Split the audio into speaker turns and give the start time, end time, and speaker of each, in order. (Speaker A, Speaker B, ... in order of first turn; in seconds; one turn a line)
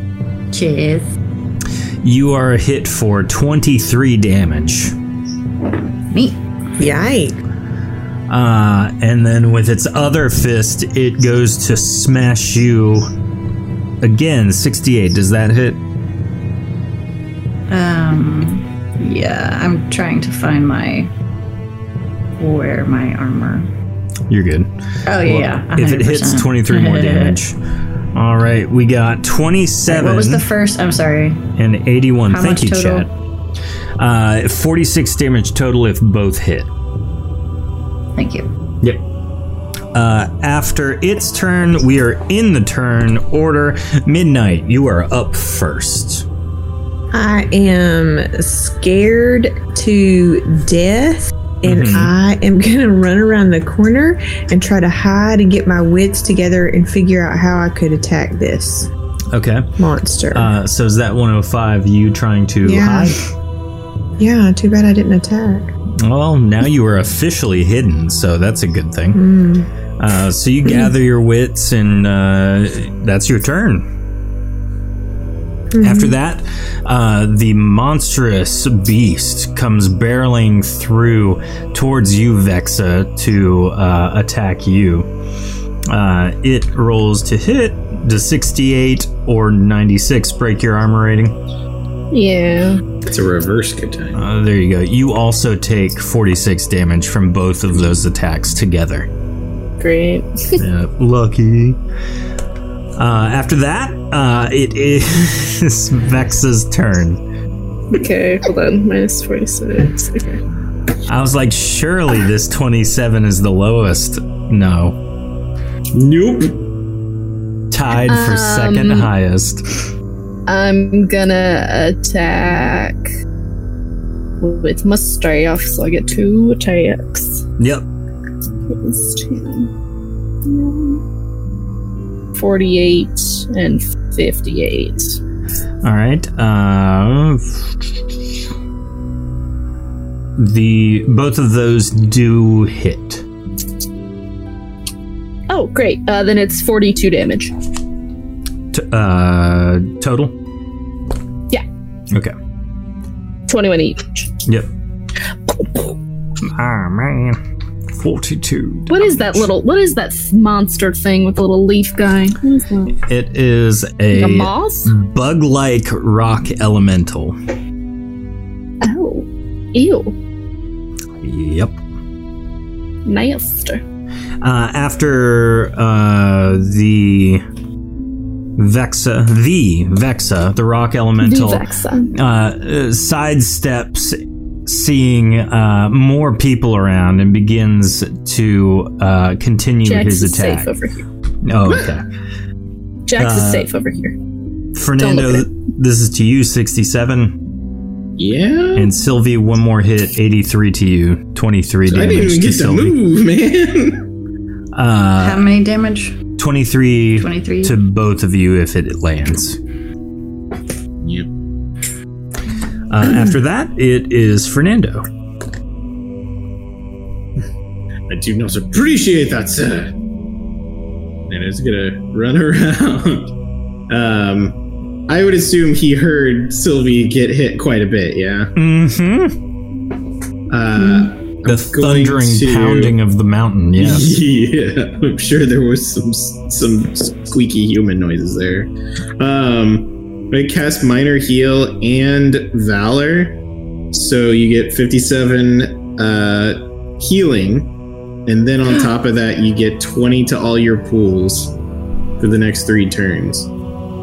Speaker A: 0.5-1.1
Speaker B: 2.0-4.9
Speaker A: 6.1-6.4
Speaker C: 6.8-7.4
Speaker B: 8.3-13.1
Speaker B: 14.0-15.8
Speaker A: 17.7-21.1
Speaker A: 22.4-23.7
Speaker B: 24.3-27.6
Speaker A: 25.1-27.4
Speaker B: 28.1-30.4
Speaker A: 29.9-31.4
Speaker B: 31.6-33.1
Speaker A: 32.3-33.1
Speaker B: 34.0-36.7
Speaker A: 38.1-38.5
Speaker B: 39.9-46.2
Speaker C: 47.1-58.9
Speaker B: 51.6-52.1
Speaker B: 59.3-59.7
Speaker C: 59.8-60.5
Speaker B: 60.3-63.2
Speaker C: 62.6-63.2
Speaker C: 64.2-65.7
Speaker B: 66.0-69.2
Speaker C: 69.1-69.7
Speaker B: 70.0-73.8
Speaker C: 75.7-76.2
Speaker B: 75.8-85.1
Speaker B: 85.9-91.3
Speaker D: 92.1-92.8
Speaker E: 93.0-94.2
Speaker B: 94.1-99.1
Speaker D: 99.8-100.6
Speaker B: 100.6-101.8
Speaker B: 103.0-107.2
Speaker D: 107.9-110.4
Speaker B: 111.0-115.0
Speaker E: 115.9-116.7
Speaker B: 117.7-119.8
Speaker D: 118.0-119.1
Speaker D: 120.5-123.1
Speaker D: 124.4-127.4
Speaker B: 127.6-127.8
Speaker D: 128.7-129.7
Speaker D: 130.4-131.0
Speaker D: 132.3-135.2
Speaker B: 135.8-137.8
Speaker B: 140.4-143.2
Speaker D: 145.5-147.5
Speaker B: 148.7-150.3
Speaker D: 153.5-154.2
Speaker B: 154.4-154.7
Speaker D: 155.5-155.9
Speaker B: 156.4-157.4
Speaker B: 157.9-159.4
Speaker D: 158.9-162.9
Speaker B: 163.0-167.3
Speaker D: 164.1-164.9
Speaker D: 168.8-170.1
Speaker B: 171.2-171.8
Speaker D: 173.1-173.8
Speaker B: 174.4-177.4
Speaker B: 178.6-190.7
Speaker D: 181.2-182.1
Speaker D: 189.8-191.0
Speaker B: 191.4-192.0
Speaker D: 193.1-194.1
Speaker B: 193.2-193.7
Speaker B: 194.7-197.3
Speaker D: 195.0-195.4
Speaker E: 198.2-198.9
Speaker B: 198.7-203.0
Speaker E: 201.9-204.0
Speaker B: 204.7-205.5
Speaker A: 205.2-206.2
Speaker B: 206.4-209.6
Speaker A: 207.2-207.7
Speaker E: 211.0-211.3
Speaker B: 212.9-215.1
Speaker E: 218.1-219.9
Speaker E: 221.3-223.3
Speaker E: 223.9-228.5
Speaker B: 228.6-229.3
Speaker E: 230.5-233.0
Speaker B: 231.4-234.1
Speaker E: 233.8-243.4
Speaker E: 243.9-247.7
Speaker E: 248.2-251.6
Speaker E: 252.2-253.5